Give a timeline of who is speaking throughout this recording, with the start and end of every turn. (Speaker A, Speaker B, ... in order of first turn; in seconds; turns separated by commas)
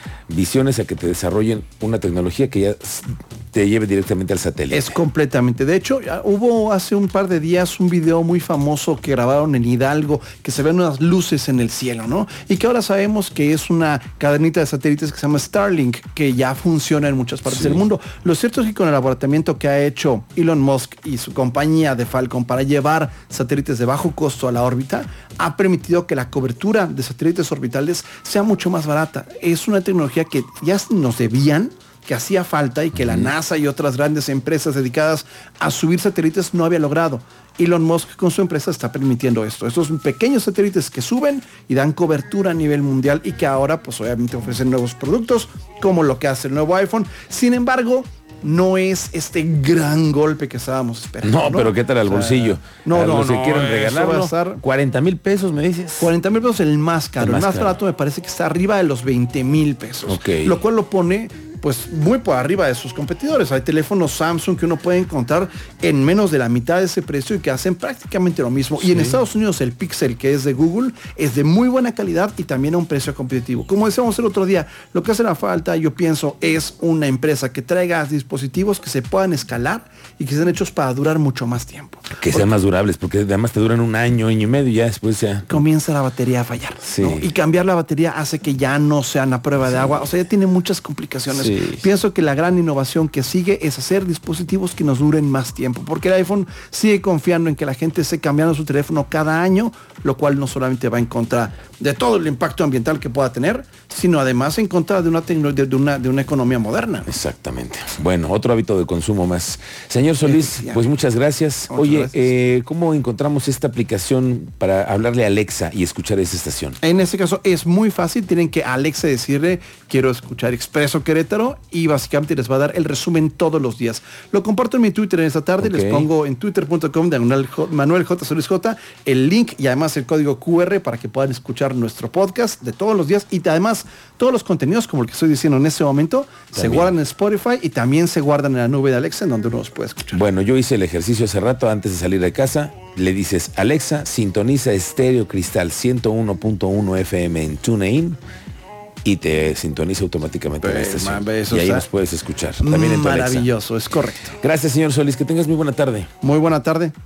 Speaker A: 0.3-4.9, Speaker B: 4.7-54.6, Speaker A: 17.5-17.8, Speaker A: 33.0-33.3, Speaker A: 51.2-56.1, Speaker B: 56.0-82.5, Speaker A: 57.2-57.8, Speaker A: 60.0-60.5, Speaker A: 68.8-69.2, Speaker A: 82.2-85.6, Speaker B: 85.5-107.1, Speaker A: 86.8-87.3, Speaker A: 91.3-91.8, Speaker A: 107.1-116.8, Speaker B: 110.2-110.8, Speaker B: 111.7-112.3, Speaker B: 116.8-140.2, Speaker A: 125.6-126.1, Speaker A: 136.5-136.9, Speaker A: 140.1-148.2, Speaker A: 149.0-153.5, Speaker B: 150.6-151.8, Speaker B: 152.6-154.4, Speaker A: 154.4-156.1, Speaker B: 156.2-156.9